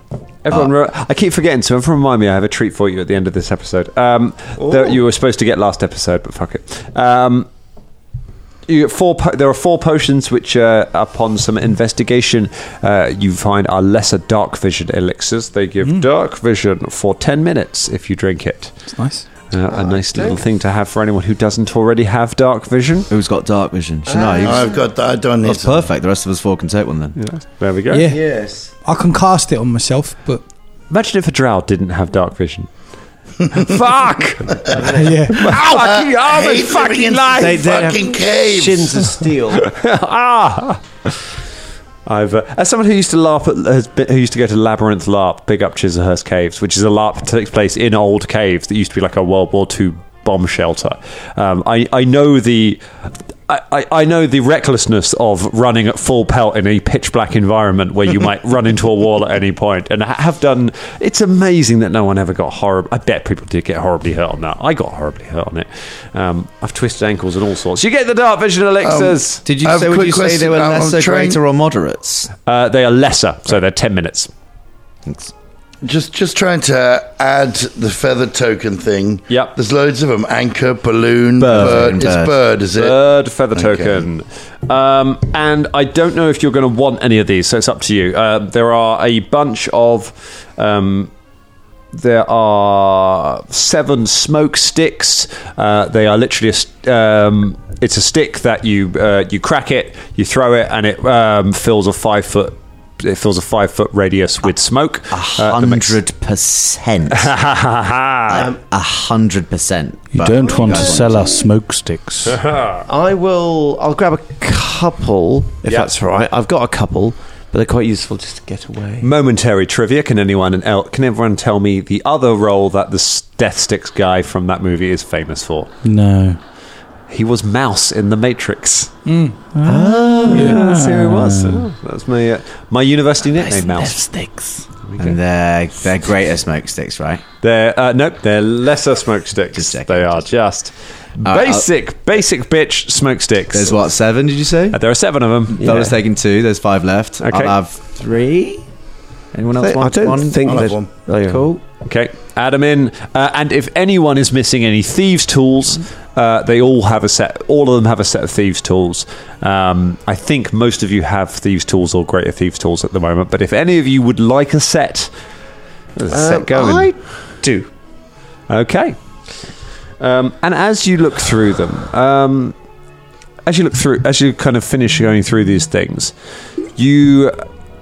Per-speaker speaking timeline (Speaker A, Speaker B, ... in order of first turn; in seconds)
Speaker A: 0.4-7.5, 8.7-18.9, 19.5-23.1, 27.2-28.1, 30.9-32.7, 33.5-37.6, 39.6-41.1, 42.0-52.8, 53.5-69.4, 72.5-74.3, 79.3-79.5, 82.7-91.1, 91.9-106.0, 107.1-108.5, 112.2-112.8, 119.0-125.7, 127.1-128.9, 130.3-134.1, 134.8-135.2, 137.4-143.8, 144.7-145.7, 147.2-147.5, 151.8-165.1, 165.9-166.9, 168.5-168.9, 170.0-172.5, 173.4-176.1, 176.7-177.4
Speaker B: 18.9-19.3, 27.9-30.4, 34.9-35.5, 129.1-129.4
Speaker C: 19.7-20.4, 24.1-24.8, 28.1-28.6, 37.4-39.7, 110.6-111.0, 112.9-119.1, 129.6-130.6, 133.4-134.6, 145.6-145.9, 149.6-151.5, 166.1-167.7
Speaker D: 23.1-24.7, 25.4-27.2, 69.4-72.3, 75.0-75.3, 81.4-82.3, 105.1-107.3, 108.3-111.3, 135.0-137.2, 139.5-140.3, 141.2-141.7, 143.5-144.8, 145.5-148.6, 149.3-150.7, 151.3-151.6
Speaker E: 24.4-25.9, 35.5-39.2, 68.8-71.4, 75.8-83.0, 83.5-84.0, 150.4-150.9
Speaker F: 110.1-112.4, 125.8-126.4, 129.5-131.7